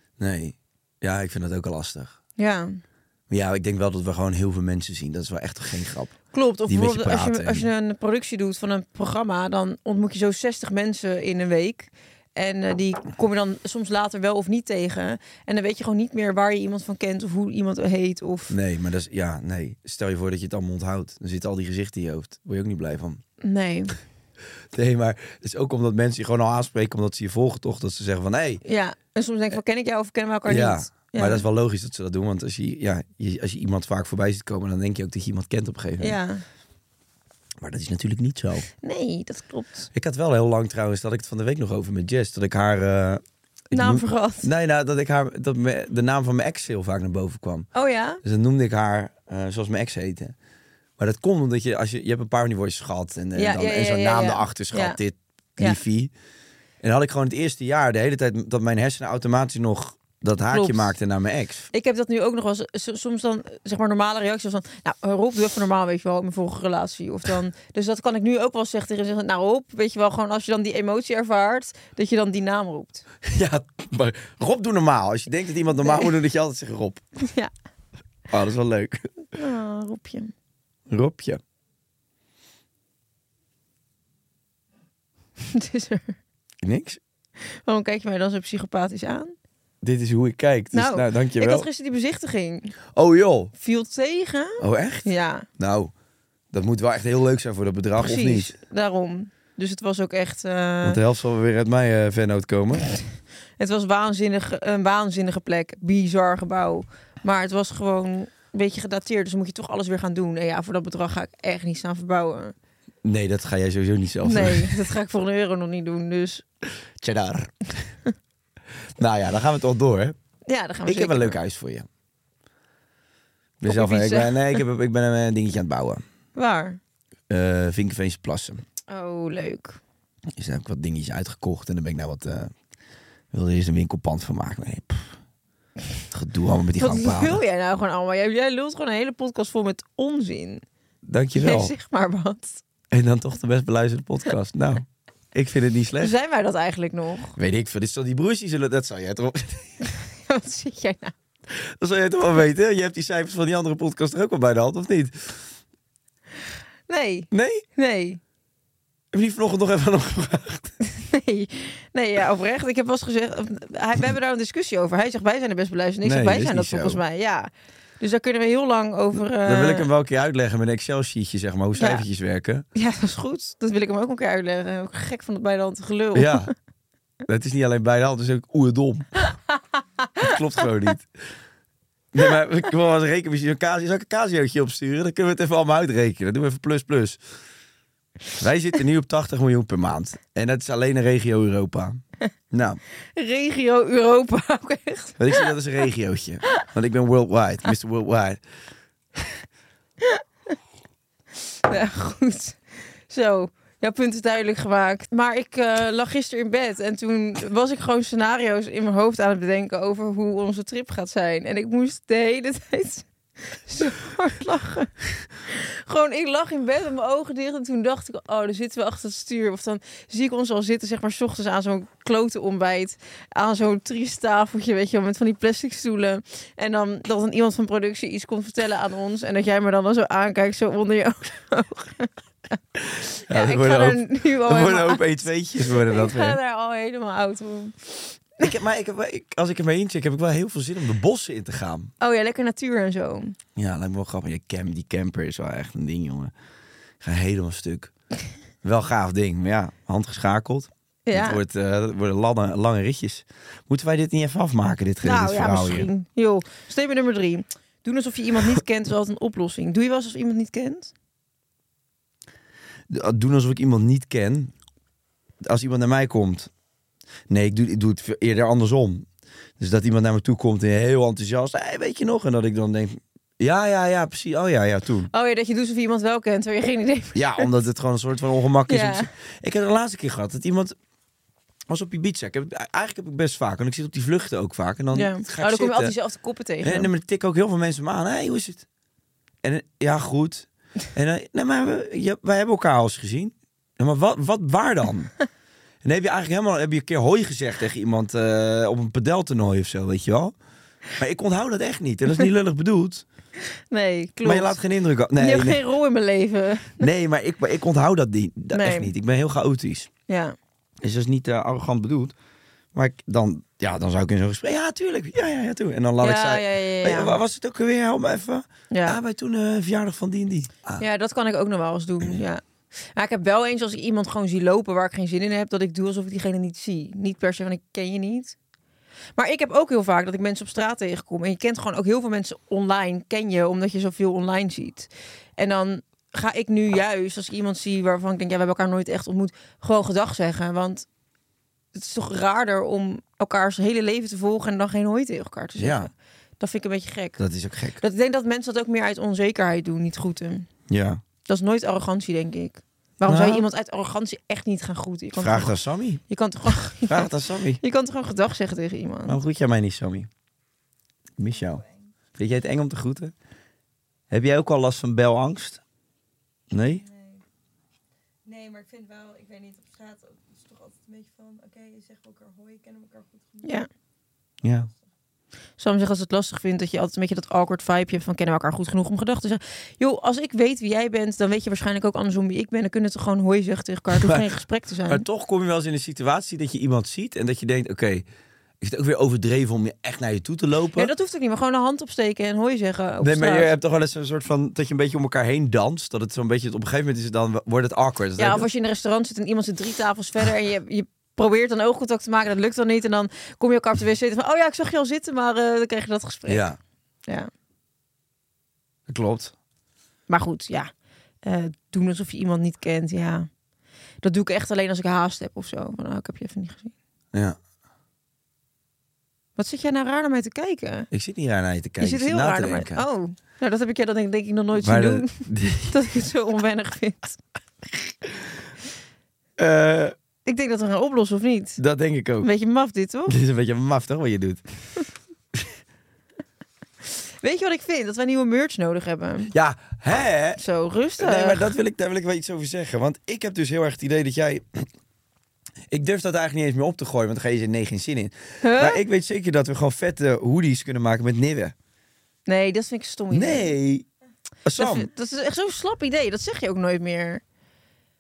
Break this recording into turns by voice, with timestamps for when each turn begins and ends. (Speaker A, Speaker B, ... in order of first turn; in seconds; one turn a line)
Speaker A: 0.2-2.2
Speaker B: 2.4-2.8
Speaker A: 3.3-7.7
Speaker B: 6.3-18.6
Speaker A: 18.5-23.2
Speaker B: 23.4-24.0
Speaker A: 24.7-28.6
Speaker B: 28.6-31.4
Speaker A: 30.5-36.2
Speaker B: 36.0-36.4
Speaker A: 37.6-38.7
Speaker B: 38.8-39.9
Speaker A: 39.9-47.7
Speaker B: 43.7-44.5
Speaker B: 47.7-48.2
Speaker A: 48.2-50.4
Speaker A: 51.0-56.1
Speaker B: 53.4-55.0
Speaker A: 56.8-61.7
Speaker B: 60.5-60.9
Speaker B: 61.7-73.0
Speaker A: 73.2-77.0
Speaker B: 77.2-77.5
Speaker A: 78.3-79.2
Speaker B: 79.3-80.3
Speaker A: 80.9-81.4
Speaker B: 85.4-86.2
Speaker A: 86.6-87.0
Speaker B: 87.4-89.3
Speaker A: 89.8-91.7
Speaker B: 90.7-92.8
Speaker A: 93.0-93.5
Speaker B: 93.6-95.5
Speaker A: 94.6-95.9
Speaker A: 96.5-98.6
Speaker B: 98.0-101.0
Speaker A: 100.8-102.8
Speaker B: 103.6-112.5
Speaker A: 113.0-114.8
Speaker B: 114.2-116.4
Speaker A: 117.0-117.5
Speaker A: 119.0-120.2
Speaker B: 120.5-121.4
Speaker A: 120.9-121.9
Speaker A: 123.6-126.0
Speaker B: 123.7-124.6
Speaker B: 126.3-126.8
Speaker A: 127.3-128.6
Speaker B: 128.9-129.8
Speaker A: 130.3-132.5
Speaker A: 133.3-135.2
Speaker A: 136.1-137.4
Speaker B: 136.8-140.6
Speaker A: 141.1-141.7
Speaker B: 141.3-142.6
Speaker A: 142.9-146.2
Speaker B: 146.0-147.4
Speaker A: 147.4-149.8
Speaker B: 149.9-151.1
Speaker A: 151.5-155.4
Speaker B: 156.9-158.2
Speaker A: 157.3-157.6
Speaker A: 159.1-160.7
Speaker B: 160.9-169.9
Speaker A: 166.0-167.0
Speaker A: 169.1-172.7
Speaker B: 171.8-172.0
Speaker B: 172.8-176.5
Speaker A: 176.2-176.5
Speaker A: 177.3-179.2
Speaker A: 180.2-181.1
Speaker A: 182.1-187.2
Speaker A: 188.3-192.8
Speaker B: 193.2-195.5
Speaker A: 195.2-198.4
Speaker B: 201.7-232.1
Speaker A: 233.2-236.4
Speaker B: 233.2-238.5
Speaker A: 238.4-241.9
Speaker B: 242.0-243.4
Speaker A: 243.6-246.3
Speaker A: 247.0-247.9
Speaker A: 248.6-255.9
Speaker B: 251.1-251.4
Speaker B: 255.0-260.9
Speaker A: 262.9-264.5
Speaker A: 265.4-266.5
Speaker A: 267.3-269.1
Speaker A: 269.6-275.1
Speaker B: 275.1-277.5
Speaker A: 277.1-280.8
Speaker B: 278.7-279.1
Speaker A: 281.7-285.9
Speaker B: 284.9-286.9
Speaker A: 286.6-288.6
Speaker A: 289.4-295.1
Speaker A: 295.8-300.3
Speaker A: 301.0-303.1
Speaker B: 303.7-304.6
Speaker A: 304.2-305.6
Speaker B: 305.2-306.9
Speaker A: 306.8-309.9
Speaker B: 308.5-308.9
Speaker B: 310.1-310.4
Speaker A: 310.8-312.1
Speaker A: 312.7-320.8
Speaker B: 316.0-317.2
Speaker B: 318.7-319.0
Speaker B: 320.8-328.4
Speaker B: 329.2-340.9
Speaker B: 341.8-347.2
Speaker A: 345.6-345.9
Speaker A: 347.2-347.8
Speaker B: 347.8-350.5
Speaker A: 350.7-351.0
Speaker B: 351.3-355.6
Speaker A: 353.1-353.4
Speaker A: 355.2-356.0
Speaker B: 356.1-359.2
Speaker A: 356.8-357.6
Speaker A: 359.1-360.1
Speaker A: 361.2-363.1
Speaker A: 364.1-365.6
Speaker A: 366.5-366.9
Speaker C: 368.3-370.1
Speaker C: 370.9-372.4
Speaker B: 373.4-373.7
Speaker A: 374.4-374.7
Speaker B: 375.6-385.1
Speaker A: 383.9-388.1
Speaker A: 388.6-390.9
Speaker B: 390.8-393.5
Speaker A: 393.0-398.5
Speaker B: 398.2-406.5
Speaker A: 406.3-406.6
Speaker A: 408.9-409.3
Speaker B: 410.1-410.7
Speaker B: 411.2-413.3
Speaker B: 414.0-416.7
Speaker A: 417.1-417.4
Speaker B: 419.4-420.9
Speaker A: 420.9-422.9
Speaker B: 421.8-425.2
Speaker A: 424.6-425.8
Speaker B: 425.7-427.2
Speaker A: 429.4-429.9
Speaker B: 430.2-431.6
Speaker A: 431.6-432.3
Speaker B: 432.2-433.2
Speaker A: 433.1-434.4
Speaker B: 437.2-439.3
Speaker A: 439.3-440.4
Speaker B: 440.4-441.6
Speaker A: 441.0-444.7
Speaker A: 445.7-451.5
Speaker B: 448.4-448.8
Speaker B: 452.3-453.6
Speaker A: 453.1-453.9
Speaker A: 454.4-454.9
Speaker B: 454.6-457.2